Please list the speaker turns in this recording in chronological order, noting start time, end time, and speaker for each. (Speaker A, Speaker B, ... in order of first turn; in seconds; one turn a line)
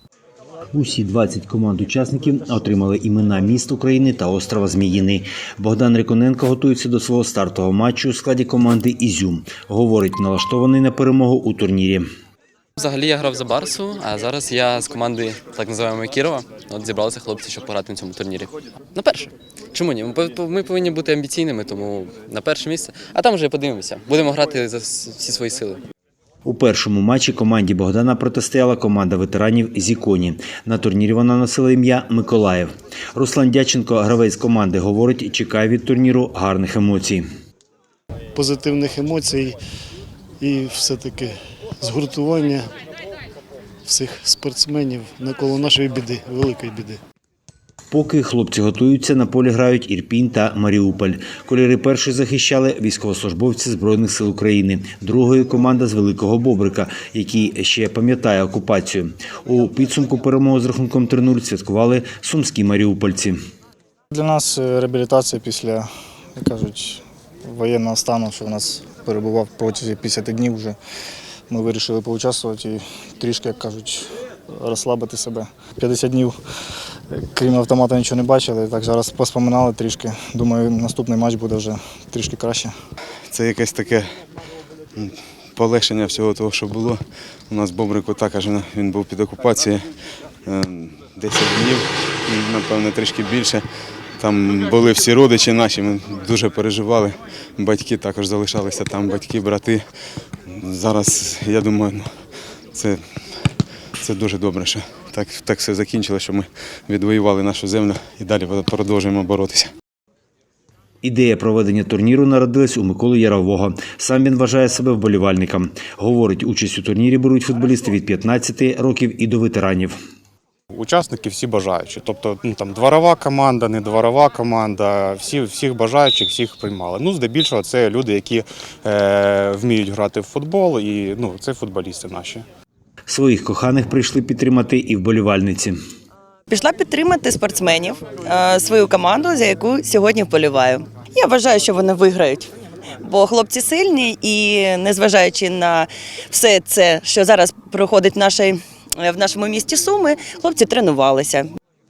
Speaker A: 0.7-12.1
Speaker B: 12.8-25.8
Speaker A: 26.4-37.2
Speaker C: 38.3-39.5
Speaker C: 40.4-42.7
Speaker C: 43.9-47.0
Speaker A: 47.9-63.4
Speaker D: 64.1-70.8
Speaker D: 71.5-76.3
Speaker D: 77.2-82.7
Speaker E: 83.3-84.1
Speaker E: 85.0-89.9
Speaker E: 90.5-93.6
Speaker E: 94.2-99.8
Speaker E: 100.5-102.1
Speaker E: 102.7-103.0
Speaker E: 104.0-109.7
Speaker A: 111.0-120.0
Speaker F: 120.7-132.4
Speaker A: 133.1-135.8
Speaker G: 136.5-151.5